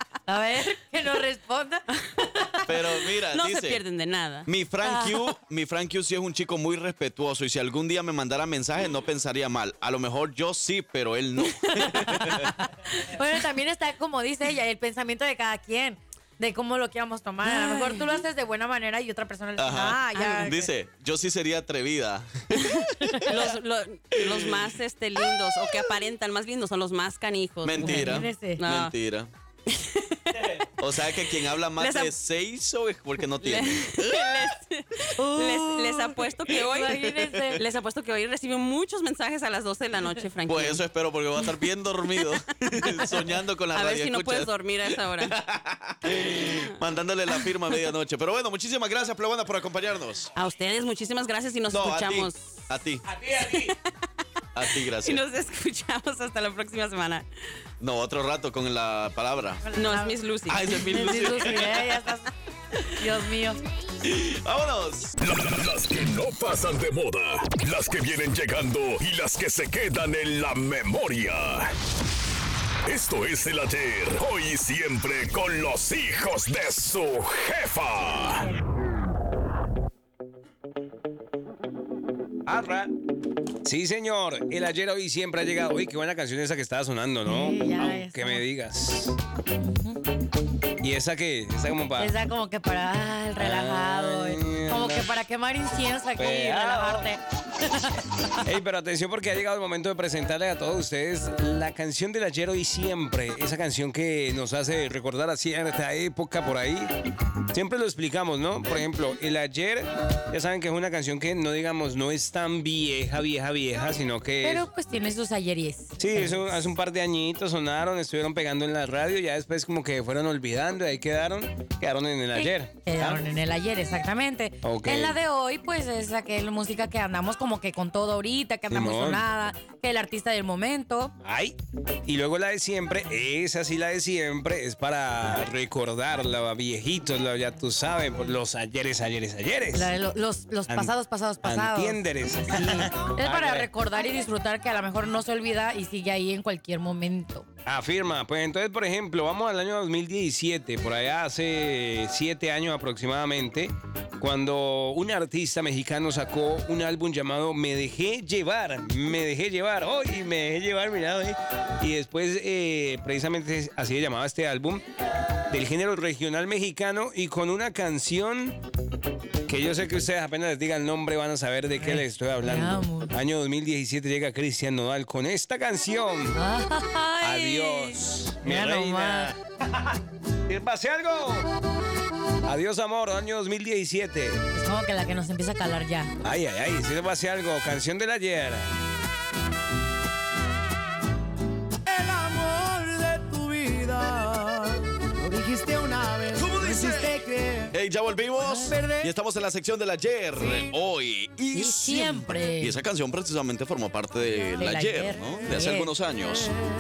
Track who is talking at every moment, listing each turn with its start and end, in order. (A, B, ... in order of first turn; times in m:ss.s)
0:00.3-0:01.8 A
0:02.0-0:04.5 B
0:02.6-0:03.8 C
0:04.5-0:12.6 C
0:04.8-0:05.3 A
0:11.4-0:11.9 B
0:11.8-0:20.7 A
0:17.4-0:18.2 B
0:19.6-0:23.5 C
0:20.1-0:20.5 B
0:22.7-0:29.0 B
0:23.0-0:23.3 A
0:24.1-0:25.9 C
0:27.6-0:29.3 C
0:27.8-0:28.6 A
0:29.7-0:32.1 B
0:30.8-0:34.5 C
0:33.4-0:40.8 B
0:35.2-0:37.6 A
0:36.9-0:37.6 C
0:40.5-0:50.3 C
0:42.9-0:43.2 B
0:43.7-0:45.4 B
0:46.2-0:46.7 B
0:50.4-0:52.6 B
0:51.7-0:53.2 C
0:53.3-0:53.5 D
0:53.4-0:53.9 B
0:54.6-0:55.2 C
0:54.6-0:57.3 B
0:57.8-0:59.6 C
0:59.7-1:00.2 A
0:59.7-1:01.1 B
1:00.5-1:02.1 C
1:00.7-1:02.3 A
1:03.0-1:03.6 A
1:04.0-1:05.2 C
1:05.2-1:11.7 E
1:12.9-1:18.5 E
1:22.5-1:22.9 D
1:23.6-1:29.2 D
1:27.3-1:28.4 A
1:29.6-1:30.0 A
1:30.8-1:32.1 D
1:32.0-1:38.3 A
1:33.4-1:35.1 D
1:36.2-1:37.1 D
1:38.4-1:46.9 D
1:47.5-1:54.7 D
1:54.4-1:56.6 A
1:56.0-2:03.2 D
2:02.4-2:11.1 A
2:04.6-2:05.2 D
2:08.7-2:09.2 D
2:11.2-2:19.9 D
2:19.7-2:27.4 A
2:20.7-2:23.7 D
2:27.7-2:44.8 D
2:45.5-2:48.6 D
2:49.4-2:56.4 D
2:51.8-2:53.1 A
2:56.4-2:59.4 A
2:57.2-3:00.0 D
3:00.5-3:01.5 D
3:02.4-3:04.4 D
3:04.5-3:06.1 A
3:06.2-3:08.7 D
3:11.9-3:17.7 F
3:16.3-3:26.5 C
3:18.4-3:18.7 A
3:18.6-3:19.1 F
3:21.5-3:22.8 A
3:24.6-3:25.9 A